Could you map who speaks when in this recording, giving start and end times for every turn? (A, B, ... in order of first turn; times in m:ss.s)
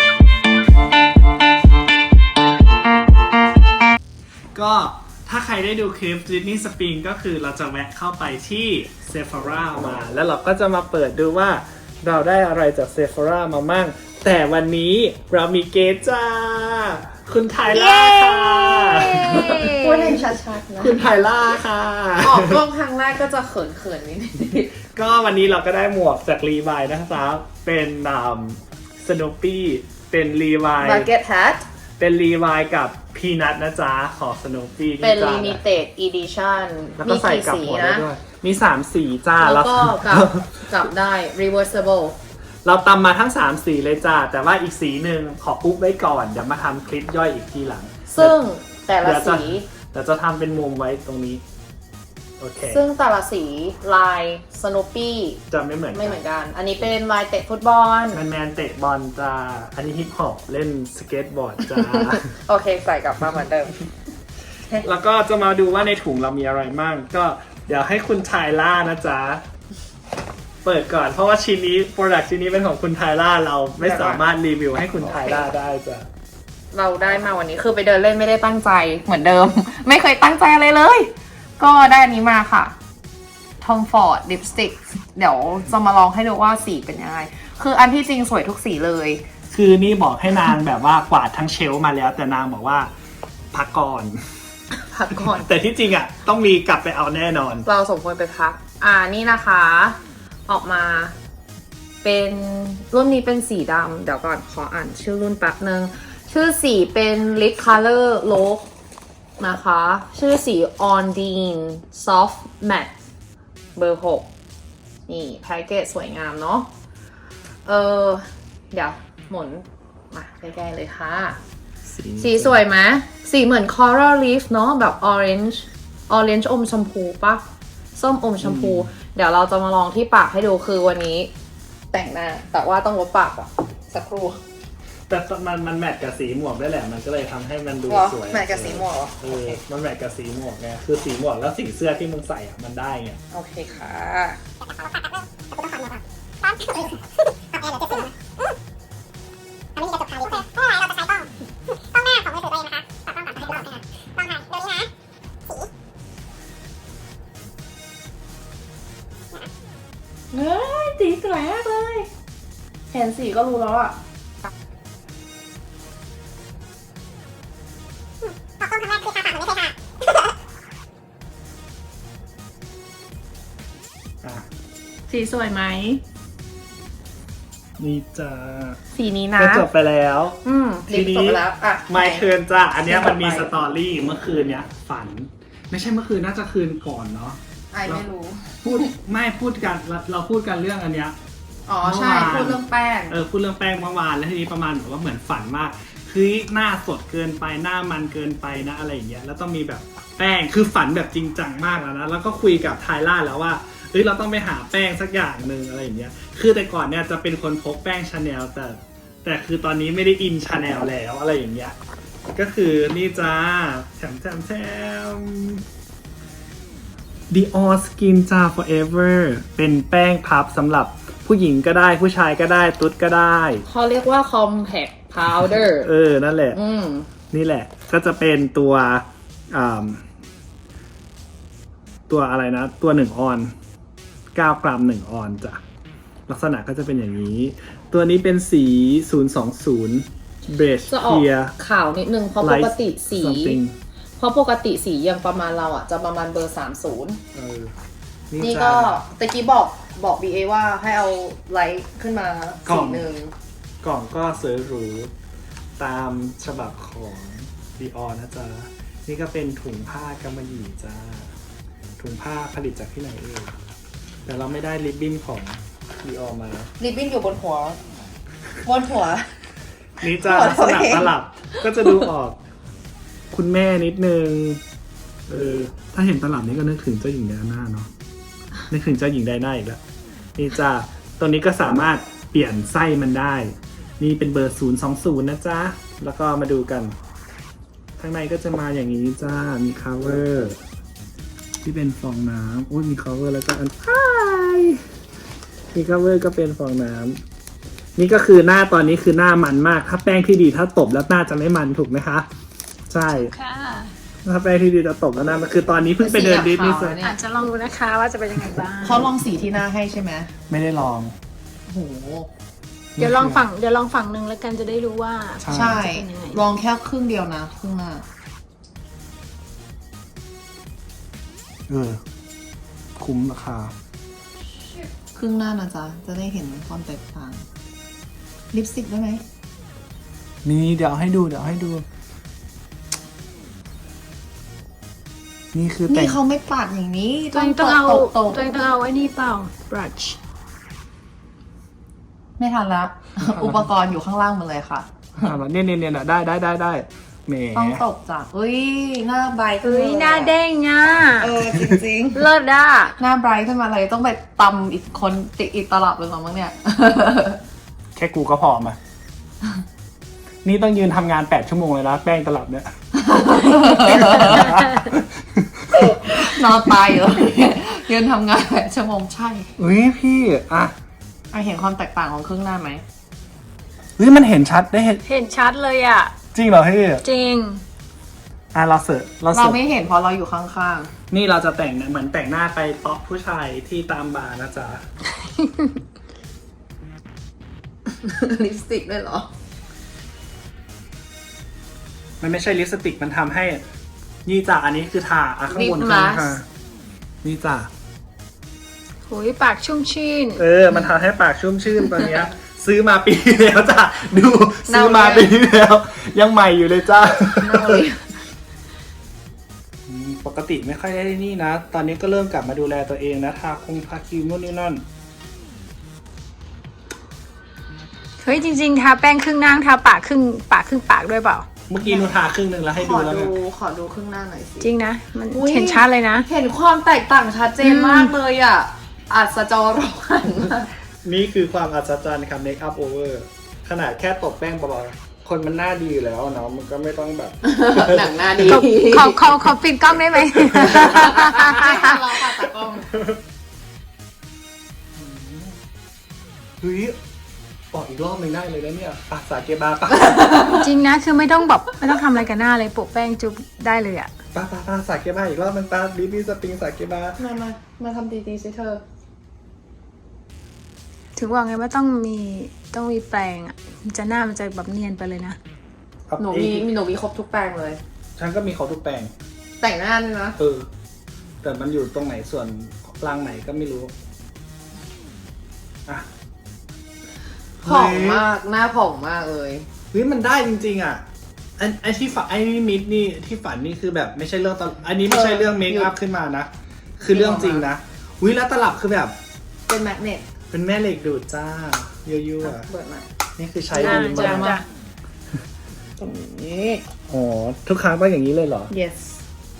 0:04.6-0:19.7 A
0:17.7-0:20.2 B
0:19.4-0:21.0 C
0:20.8-0:22.6 A
0:22.2-0:24.7 C
0:24.9-0:31.1 A
0:30.8-0:31.6 C
0:32.0-0:35.6 A
0:35.0-0:38.0 C
0:37.0-0:40.7 A
0:39.4-0:42.2 C
0:42.6-0:48.4 A
0:48.1-0:49.7 C
0:49.0-0:51.4 A
0:52.4-0:52.8 A
0:52.7-0:58.2 C
0:55.5-0:56.2 A
0:58.1-1:02.3 A
1:01.7-1:03.9 C
1:04.8-1:09.4 A
1:10.6-1:16.1 A
1:13.8-1:14.2 C
1:15.0-1:15.5 C
1:16.7-1:22.8 C
1:23.6-1:29.2 C
1:29.5-1:32.9 A
1:33.5-1:34.2 A
1:34.9-1:35.5 C
1:35.2-1:37.7 A
1:37.6-1:41.2 C
1:42.0-1:48.7 C
1:49.4-1:53.0 C
1:53.8-1:54.3 C
1:55.1-1:56.7 C
1:57.6-2:01.4 C
2:01.9-2:02.6 A
2:02.2-2:07.4 C
2:08.0-2:11.3 C
2:08.4-2:08.9 A
2:11.9-2:14.4 C
2:15.1-2:23.2 A
2:17.9-2:19.6 C
2:23.3-2:24.4 C
2:26.5-2:26.9 C
2:27.6-2:28.1 C
2:29.8-2:30.2 D
2:29.9-2:30.6 C
2:30.8-2:31.1 D
2:32.0-2:32.8 D
2:33.2-2:33.8 C
2:34.4-2:34.7 D
2:40.3-2:42.1 C
2:42.9-2:44.5 C
2:48.9-2:49.4 D
2:55.1-2:56.0 C
2:57.8-2:58.8 A
2:58.9-2:59.7 C
2:59.4-3:08.1 A
3:00.4-3:02.3 C
3:02.8-3:03.5 C
3:07.7-3:08.9 C
3:08.6-3:11.2 A
3:11.7-3:13.2 C
3:11.8-3:31.8 A
3:32.4-3:35.6 A
3:37.3-3:43.7 A
3:43.7-3:45.9 C
3:45.8-3:46.6 A
3:46.5-3:47.1 C
3:47.3-3:50.0 A
3:52.1-3:53.5 A
3:54.4-3:55.6 A
3:56.3-4:01.6 A
4:00.9-4:03.6 C
4:02.4-4:03.8 A
4:04.2-4:07.2 C
4:07.3-4:07.8 A
4:08.3-4:09.0 A
4:08.4-4:13.3 C
4:12.7-4:13.1 A
4:13.8-4:15.1 A
4:15.8-4:21.3 A
4:22.0-4:23.6 A
4:24.3-4:26.7 A
4:26.8-4:27.8 C
4:28.6-4:29.3 C
4:30.0-4:32.4 A
4:30.2-4:32.1 C
4:33.3-4:34.6 A
4:35.3-4:37.9 A
4:38.7-4:39.8 A
4:40.4-4:47.0 A
4:48.0-4:50.6 A
4:51.6-4:54.8 A
4:55.7-4:57.2 A
4:58.0-5:02.3 A
5:02.9-5:03.3 A
5:03.2-5:03.9 B
5:04.2-5:07.0 A
5:06.0-5:07.2 C
5:07.0-5:09.1 B
5:08.8-5:10.3 C
5:10.5-5:11.2 A
5:11.7-5:12.3 C
5:13.0-5:13.5 A
5:13.0-5:16.4 B
5:15.4-5:15.8 A
5:15.5-5:18.0 C
5:21.7-5:22.0 A
5:23.0-5:23.7 A
5:25.1-5:27.5 C
5:28.5-5:29.2 C
5:30.4-5:31.9 A
5:35.5-5:36.2 A
5:35.9-5:38.4 C
5:37.3-5:40.2 B
5:42.4-5:45.4 C
5:45.2-5:47.8 A
5:47.6-5:50.3 C
5:49.6-5:51.3 B
5:51.2-5:52.3 C
5:52.1-5:53.0 B
5:53.0-5:57.4 C
5:58.0-5:58.8 A
6:00.4-6:02.7 A
6:02.9-6:04.6 C
6:03.7-6:06.1 A
6:05.7-6:09.6 C
6:09.6-6:10.8 A
6:11.3-6:12.8 C
6:14.0-6:15.0 A
6:15.1-6:16.1 B
6:16.3-6:17.0 A
6:17.0-6:17.6 B
6:18.5-6:19.6 A
6:19.3-6:20.9 C
6:21.1-6:24.8 A
6:25.4-6:25.7 B
6:27.9-6:29.3 C
6:32.2-6:33.6 A
6:34.3-6:36.4 A
6:35.5-6:36.4 C
6:37.2-6:37.7 A
6:39.1-6:40.4 B
6:40.4-6:47.8 A
6:44.7-6:45.3 C
6:47.4-6:48.1 C
6:49.9-6:54.8 A
6:58.2-7:01.5 B
7:01.7-7:03.3 A
7:01.8-7:02.2 C
7:02.8-7:04.7 C
7:04.6-7:06.3 B
7:05.3-7:10.7 C
7:07.6-7:08.1 B
7:11.0-7:18.2 A
7:17.4-7:19.4 C
7:18.5-7:22.0 B
7:20.2-7:21.3 A
7:20.5-7:22.9 C
7:25.0-7:25.6 A
7:26.6-7:27.0 A
7:27.7-7:30.6 A
7:30.5-7:34.1 B
7:34.3-7:37.2 A
7:37.2-7:38.8 C
7:41.2-7:45.4 B
7:46.1-7:46.7 A
7:46.2-7:47.8 C
7:48.2-7:49.1 A
7:49.6-7:50.4 C
7:50.4-7:50.7 A
7:51.4-7:53.9 A
7:57.6-7:58.3 A
7:57.6-7:59.7 C
7:59.9-8:01.0 A
8:01.6-8:09.2 A
8:05.1-8:05.9 C
8:07.1-8:07.7 C
8:09.7-8:10.3 C
8:10.5-8:12.7 A
8:12.4-8:13.1 C
8:13.4-8:14.6 A
8:13.7-8:14.6 C
8:13.8-8:14.6 B
8:16.0-8:16.8 C
8:17.1-8:18.7 A
8:18.7-8:19.2 C